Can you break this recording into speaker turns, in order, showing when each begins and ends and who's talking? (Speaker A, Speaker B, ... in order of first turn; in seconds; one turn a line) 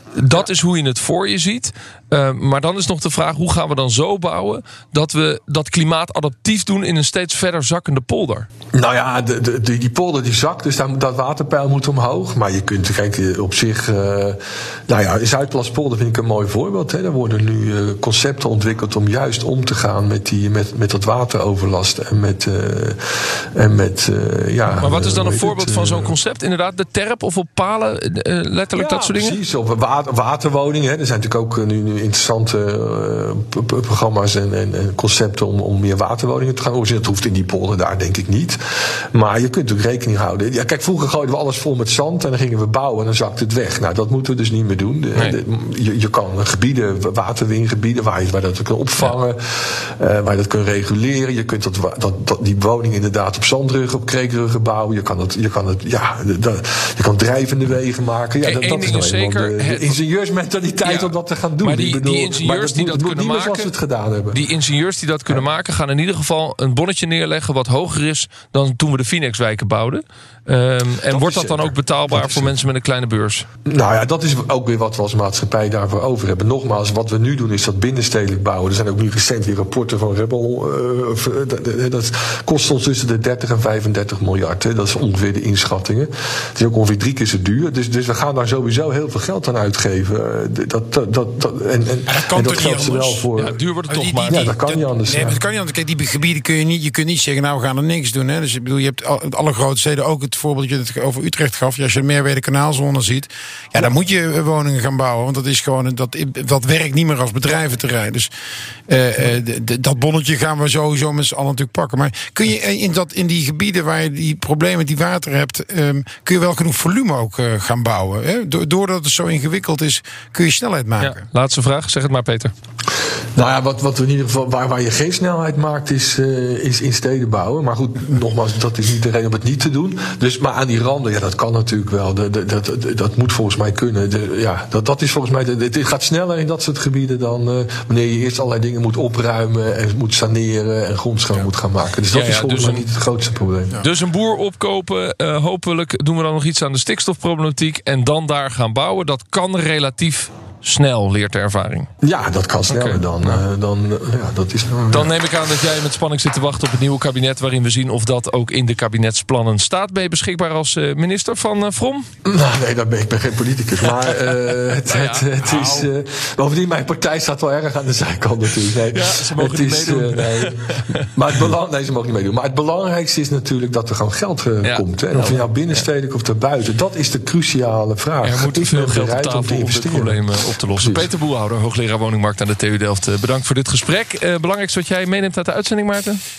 Speaker A: 0.1-8.5
Speaker B: 8.7-26.1
Speaker A: 24.7-29.4
Speaker B: 28.7-38.6
Speaker B: 39.1-64.4
Speaker A: 58.4-60.0
Speaker A: 60.8-63.7
Speaker A: 64.3-73.5
Speaker B: 71.1-72.5
Speaker B: 73.7-93.6
Speaker C: 92.1-93.2
Speaker A: 93.3-94.8
Speaker C: 93.9-108.3
Speaker B: 94.2-95.4
Speaker C: 108.9-121.2
Speaker A: 121.0-122.5
Speaker B: 123.3-143.8
Speaker A: 142.1-142.8
Speaker A: 143.8-151.9
Speaker B: 152.0-155.1
Speaker A: 152.7-153.4
Speaker A: 154.9-162.1
Speaker B: 162.2-181.1
Speaker A: 164.0-164.3
Speaker A: 164.8-165.3
Speaker C: 165.4-165.9
Speaker A: 168.9-171.1
Speaker A: 174.6-175.8
Speaker A: 178.2-186.2